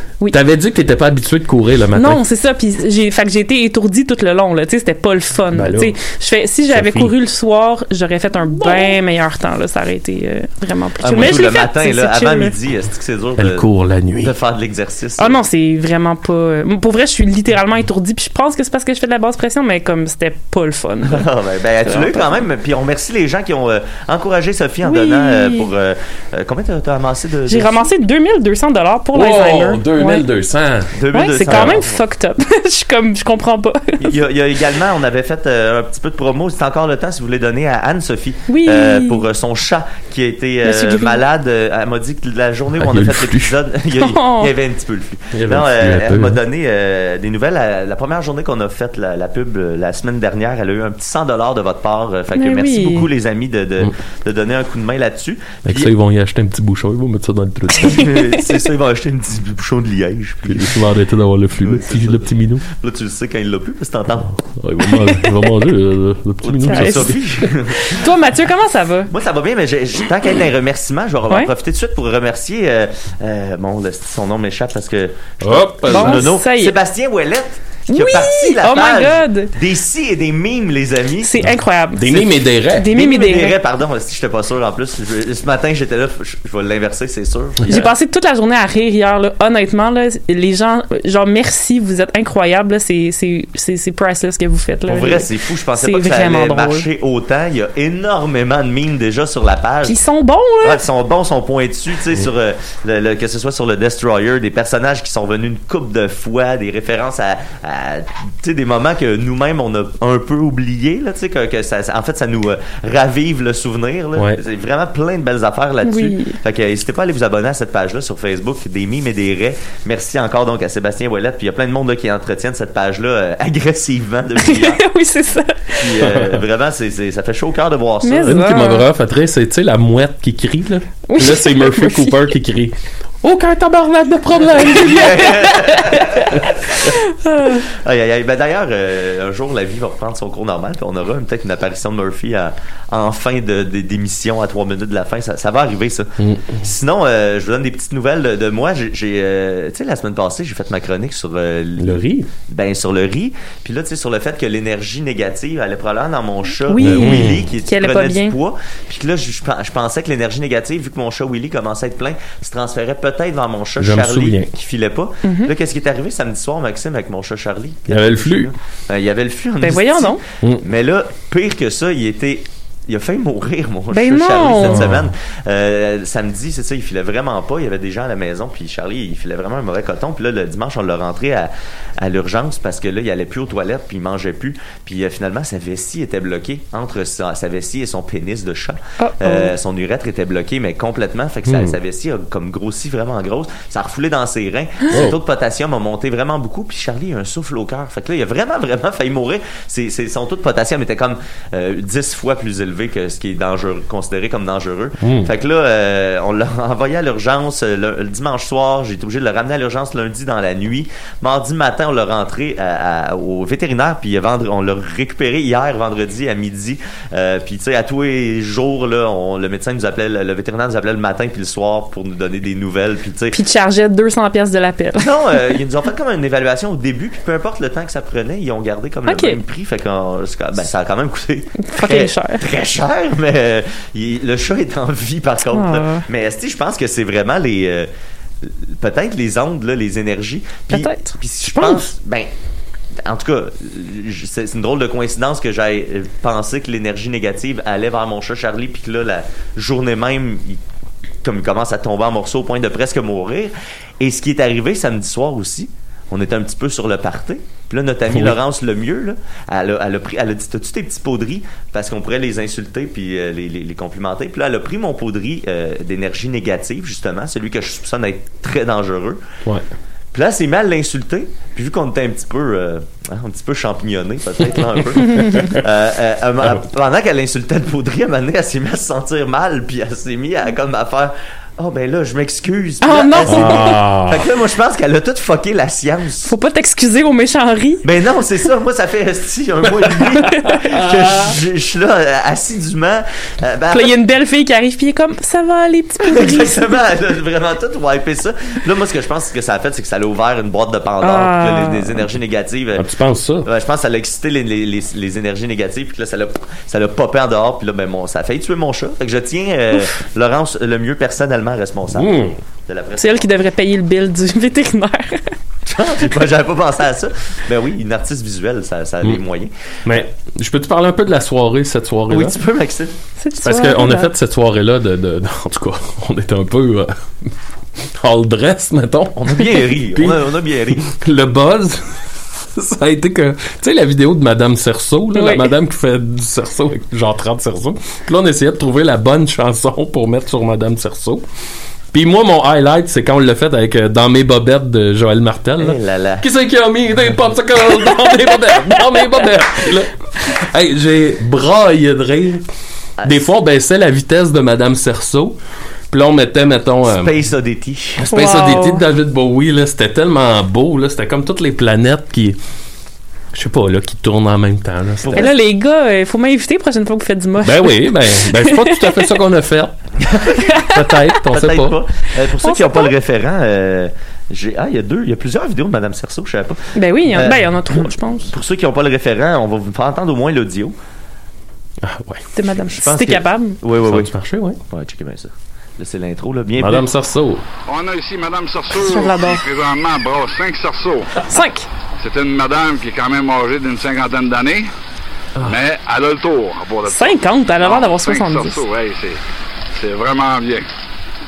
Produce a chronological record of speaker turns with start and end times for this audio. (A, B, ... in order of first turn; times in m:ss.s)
0:00.3-0:02.2 A
0:01.9-0:12.5 B
0:05.5-0:06.0 A
0:06.7-0:07.1 A
0:08.6-0:09.0 A
0:11.0-0:13.7 C
0:13.4-0:14.3 A
0:14.2-0:15.4 C
0:15.2-0:21.3 B
0:21.1-0:27.9 C
0:21.8-0:22.4 B
0:24.8-0:25.7 B
0:27.5-0:30.3 B
0:29.1-0:31.8 A
0:31.0-0:32.0 C
0:31.1-0:34.2 B
0:34.0-0:55.9 C
0:38.5-0:39.2 B
0:40.6-0:41.2 B
0:42.8-0:43.6 A
0:44.0-0:44.5 B
0:45.3-0:46.4 A
0:52.4-0:53.1 B
0:55.7-0:58.1 A
0:57.8-0:58.4 B
0:57.9-1:00.8 C
1:00.5-1:02.6 A
1:01.6-1:04.4 C
1:04.6-1:07.2 A
1:04.9-1:05.4 B
1:06.4-1:08.0 C
1:06.6-1:07.2 B
1:07.7-1:09.1 B
1:09.1-1:21.4 C
1:15.4-1:16.3 A
1:15.9-1:16.8 B
1:17.9-1:19.5 B
1:21.2-1:23.6 B
1:22.0-1:22.9 A
1:22.9-1:27.9 C
1:27.7-1:36.9 B
1:34.9-1:40.0 C
1:39.8-1:40.8 B
1:40.6-2:04.8 C
1:54.2-1:54.4 A
1:55.8-1:56.4 B
2:04.4-2:06.0 B
2:05.8-2:08.4 C
2:06.0-2:06.4 A
2:08.0-2:08.9 B
2:08.3-2:15.3 A
2:11.1-2:12.3 B
2:14.6-2:16.4 B
2:14.7-2:16.4 C
2:16.9-2:17.6 B
2:17.7-3:43.4 C
2:26.2-2:26.6 A
2:31.8-2:32.3 A
2:36.7-2:38.4 B
2:36.8-2:37.5 A
2:43.8-2:44.5 A
2:45.2-2:45.5 B
2:47.9-2:48.5 A
2:49.6-2:50.2 B
2:53.9-2:54.9 B
2:54.6-2:55.1 A
3:09.0-3:09.5 B
3:11.5-3:11.8 A
3:14.9-3:15.2 A
3:25.0-3:25.3 A
3:43.3-3:45.1 B
3:45.0-3:57.9 C
3:49.1-3:49.4 B
3:51.6-3:52.4 B
3:55.5-3:56.0 B
3:58.4-4:02.3 C
4:00.7-4:01.9 B
4:03.0-4:10.6 C
4:11.2-4:29.2 C
4:18.1-4:18.4 A
4:30.1-4:46.3 C
4:42.8-4:43.8 B
4:43.3-4:44.3 A
4:46.3-4:47.8 B
4:47.8-4:54.0 C
4:50.3-4:50.6 B
4:53.7-4:56.7 B
4:56.0-5:02.9 C
5:01.0-5:02.1 B
5:02.8-5:03.5 A
5:03.4-5:12.1 C
5:11.9-5:12.4 A
5:12.7-5:13.3 C
5:13.0-5:15.3 B
5:15.7-5:20.0 C
5:19.9-5:22.4 A
5:22.1-5:22.9 C
5:23.2-5:24.1 B
5:23.4-5:27.3 A
5:28.0-5:30.2 A
5:29.2-5:30.9 C
5:30.8-5:31.8 A
5:32.6-5:41.2 A
5:35.1-5:35.5 B
5:41.9-5:52.4 A
5:45.6-5:46.2 C
5:53.0-5:53.3 C
5:53.0-5:55.4 A
5:55.9-5:57.1 A
5:56.9-5:58.1 C
5:58.0-6:02.4 A
5:58.1-5:58.8 B
6:03.3-6:05.3 A
6:05.0-6:05.3 C
6:05.2-6:09.1 B
6:07.4-6:11.8 A
6:10.1-6:10.4 C
6:10.5-6:10.8 B
6:11.3-6:20.8 C
6:12.4-6:12.9 B
6:16.8-6:18.3 B
6:21.8-6:22.2 A
6:22.4-6:23.6 B
6:22.8-6:24.1 C
6:23.8-6:24.6 A
6:24.7-6:26.9 C
6:26.6-6:27.4 A
6:27.7-6:31.1 D
6:28.8-6:29.4 B
6:31.3-6:31.7 B
6:32.0-6:34.7 D
6:35.4-6:39.2 D
6:36.9-6:38.6 B
6:39.7-6:40.7 D